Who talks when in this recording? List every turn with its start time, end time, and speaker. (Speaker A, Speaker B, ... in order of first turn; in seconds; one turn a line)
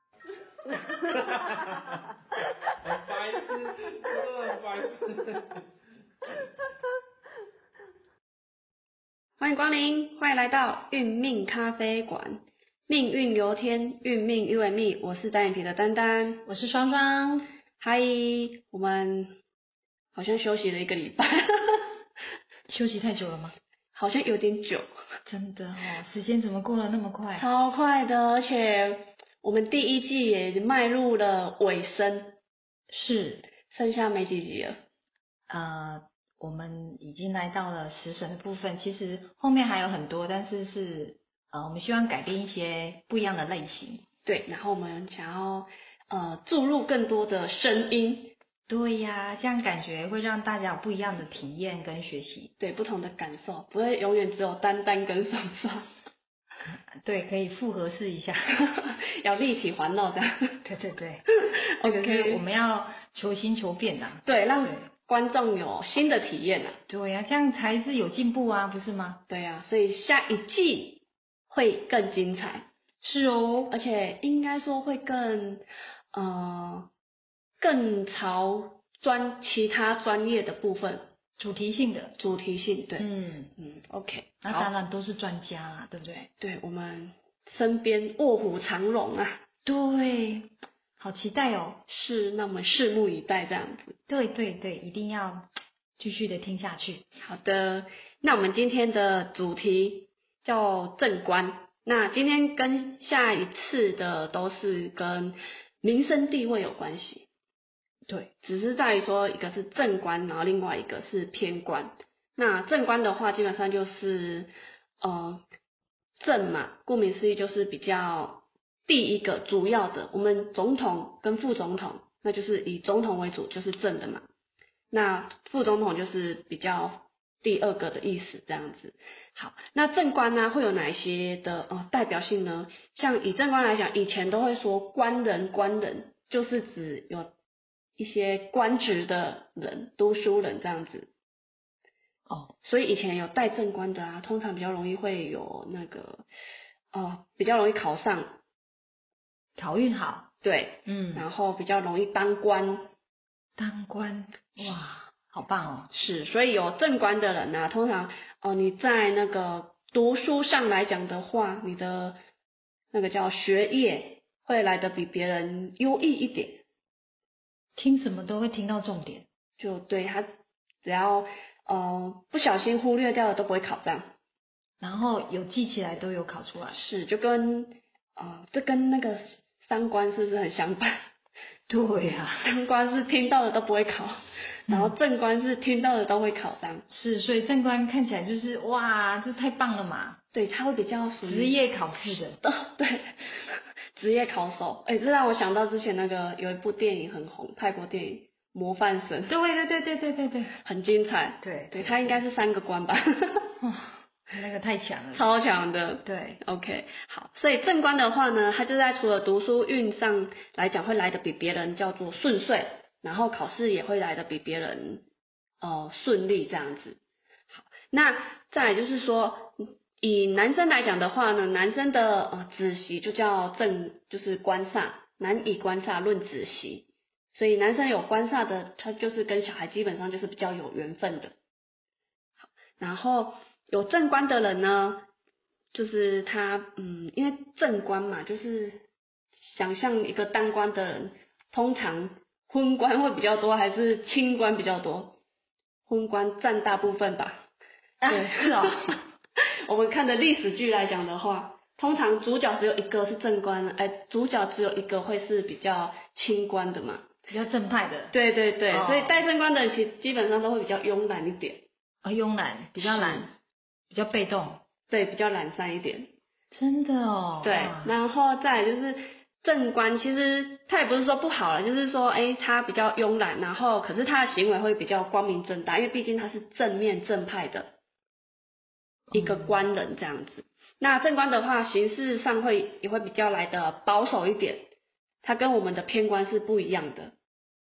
Speaker A: 1.2-1.6
Speaker A: 2.8-5.4
Speaker B: 9.4-16.5
Speaker C: 16.5-17.5
Speaker B: 17.8-19.4
Speaker B: 20.1-21.9
Speaker C: 22.7-23.5
Speaker B: 23.9-24.9
Speaker C: 25.3-27.5
Speaker B: 27.4-32.4
Speaker C: 32.9-33.5
Speaker B: 33.7-34.8
Speaker C: 35.5-44.0
Speaker B: 44.2-48.4
Speaker C: 48.7-52.5
Speaker B: 52.6-55.9
Speaker C: 57.0-58.7
Speaker B: 58.6-60.6
Speaker C: 60.6-61.3
Speaker B: 61.7-62.4
Speaker C: 61.8-64.9
Speaker B: 64.2-66.8
Speaker C: 66.9-69.2
Speaker B: 69.3-72.7
Speaker C: 73.0-73.7
Speaker B: 73.7-76.9
Speaker B: 77.6-81.1
Speaker C: 81.4-82.2
Speaker B: 82.2-83.1
Speaker C: 83.0-83.5
Speaker B: 83.6-84.7
Speaker C: 84.4-86.3
Speaker B: 86.4-89.4
Speaker C: 89.7-91.8
Speaker B: 91.9-94.0
Speaker C: 94.1-97.0
Speaker B: 97.2-107.3
Speaker B: 108.4-115.4
Speaker B: 116.2-124.3
Speaker B: 124.9-137.3
Speaker B: 138.0-141.1
Speaker B: 142.6-146.3
Speaker B: 146.9-148.4
Speaker C: 149.6-150.3
Speaker B: 150.4-152.9
Speaker C: 150.9-151.3
Speaker C: 153.6-155.9
Speaker B: 155.9-162.2
Speaker B: 162.9-166.6
Speaker C: 167.8-169.3
Speaker B: 169.6-170.3
Speaker B: 170.8-174.1
Speaker C: 174.8-176.8
Speaker B: 176.7-181.0
Speaker C: 181.7-182.5
Speaker B: 182.4-186.8
Speaker C: 184.7-184.9
Speaker C: 186.9-190.2
Speaker B: 190.3-191.6
Speaker C: 191.2-192.4
Speaker B: 192.1-199.3
Speaker C: 199.3-200.5
Speaker B: 200.6-203.5
Speaker C: 201.4-202.2
Speaker C: 203.6-205.2
Speaker B: 205.1-215.0
Speaker C: 206.1-206.4
Speaker B: 215.6-217.0
Speaker B: 217.5-231.3
Speaker B: 232.4-235.1
Speaker B: 235.7-238.8
Speaker B: 239.5-245.2
Speaker B: 245.9-247.4
Speaker C: 248.0-249.0
Speaker B: 248.1-248.9
Speaker B: 249.7-257.1
Speaker C: 257.3-258.1
Speaker B: 258.1-261.7
Speaker C: 258.7-259.2
Speaker C: 262.0-263.3
Speaker B: 262.8-263.3
Speaker C: 263.9-264.6
Speaker B: 264.9-266.1
Speaker C: 266.5-267.9
Speaker B: 267.4-277.8
Speaker C: 279.1-279.6
Speaker B: 279.1-284.7
Speaker B: 285.2-287.1